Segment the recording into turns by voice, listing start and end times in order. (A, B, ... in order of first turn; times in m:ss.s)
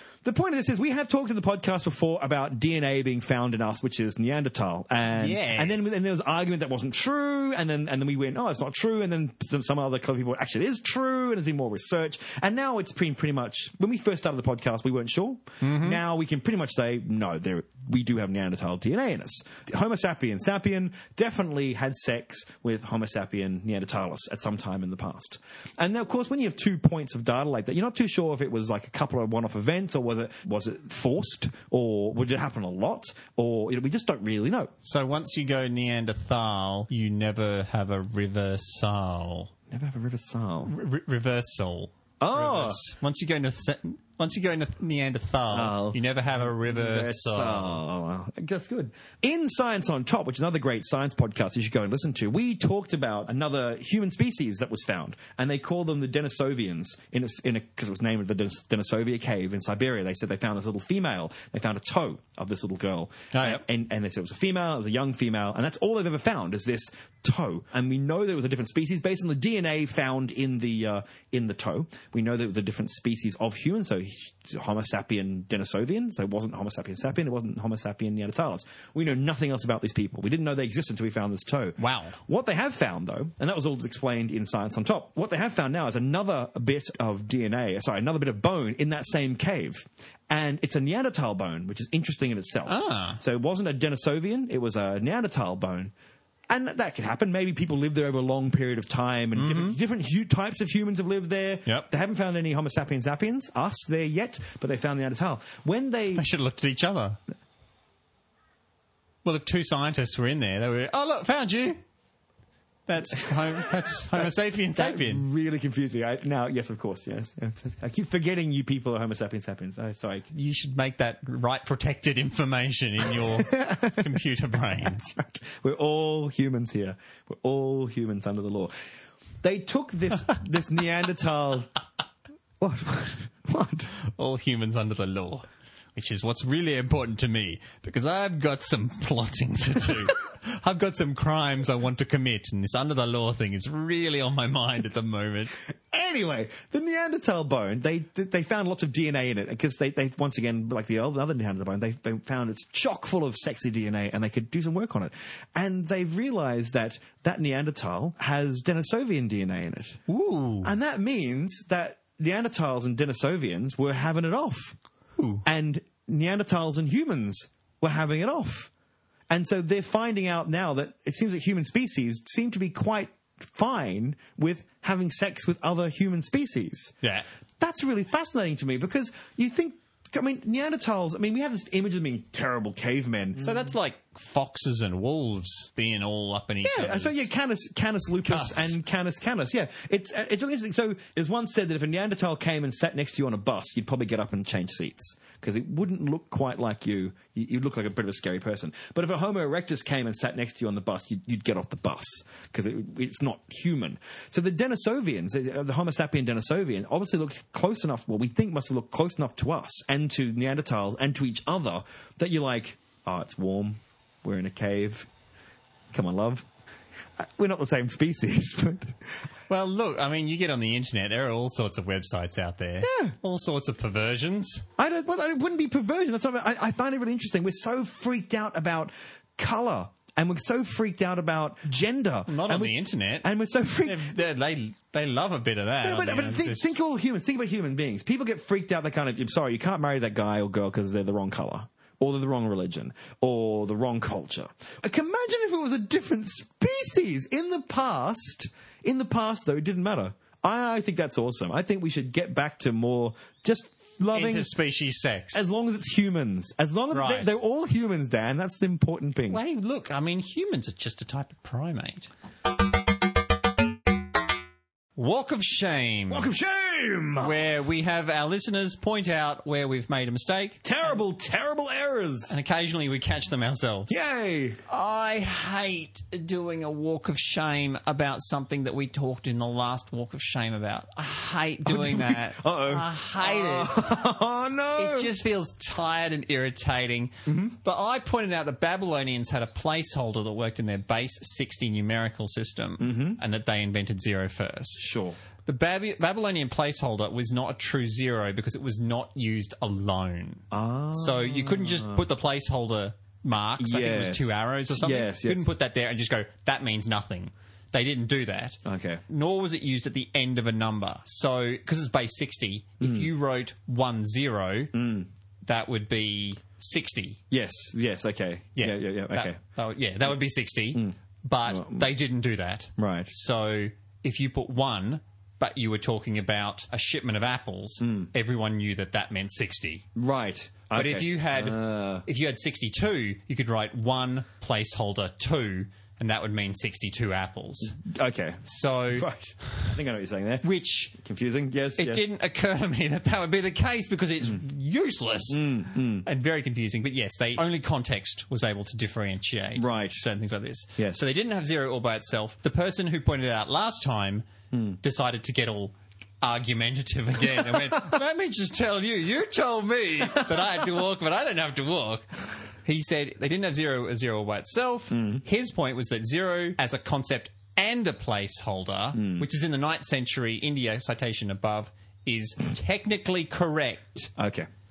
0:00.2-0:34.7 A
0:05.1-0:05.9 B
0:15.6-0:16.0 B
0:34.8-0:39.5 B
0:39.7-0:40.7 A
0:40.6-0:47.8 B
0:42.2-0:42.8 A
0:45.5-1:35.9 A
1:03.3-1:03.6 B
1:21.8-1:22.2 B
1:32.6-1:33.2 B
1:36.5-1:46.2 A
1:39.3-1:39.8 B
1:46.1-1:47.2 B
1:49.2-1:51.8 B
1:52.9-1:55.2 B
1:54.2-2:00.3 A
2:00.3-2:05.1 B
2:03.0-2:04.2 A
2:04.8-2:08.7 A
2:09.4-2:11.7 A
2:12.6-2:13.9 A
2:14.0-2:25.5 B
2:25.9-2:40.0 A
2:40.1-2:40.7 B
2:40.6-2:44.8 A
2:45.2-2:45.4 B
2:45.4-2:48.7 A
2:49.3-2:57.0 A
2:57.6-3:03.5 A
3:03.4-3:07.2 B
3:06.6-3:35.1 A
3:08.2-3:08.8 B
3:35.9-3:36.5 A
3:37.2-3:39.1 A
3:39.5-3:44.7 B
3:42.8-3:43.1 A
3:44.8-3:54.2 A
3:52.3-3:53.3 B
3:53.8-3:56.8 B
3:55.8-4:14.5 A
4:14.1-4:15.5 B
4:15.3-4:19.4 A
4:16.9-4:17.3 B
4:19.3-4:22.1 B
4:25.0-4:26.3 B
4:26.1-4:27.4 A
4:27.2-4:31.0 B
4:30.6-4:32.3 A
4:32.3-4:34.0 B
4:33.9-4:34.6 A
4:34.7-4:43.9 B
4:41.6-4:45.1 A
4:44.7-4:54.8 B
4:47.2-4:47.5 A
4:52.8-4:53.2 A
4:54.8-4:55.2 A
4:55.4-5:14.7 B
5:00.5-5:02.0 A
5:03.6-5:05.5 A
5:08.6-5:09.0 A
5:12.8-5:13.1 A
5:14.7-5:15.1 A
5:15.4-5:17.2 B
5:17.3-5:19.4 A
5:18.6-5:29.8 B
5:21.5-5:21.9 A
5:22.8-5:23.1 A
5:27.8-5:28.1 A
5:30.0-5:32.0 A
5:30.7-5:37.8 B
5:37.7-5:42.0 A
5:38.4-5:39.7 B
5:40.4-5:40.9 B
5:41.8-6:02.1 B
5:45.3-5:46.1 A
5:49.6-5:50.0 A
5:54.5-5:54.8 A
6:02.6-6:14.1 B
6:04.9-6:05.2 A
6:08.9-6:09.3 A
6:14.2-6:14.5 A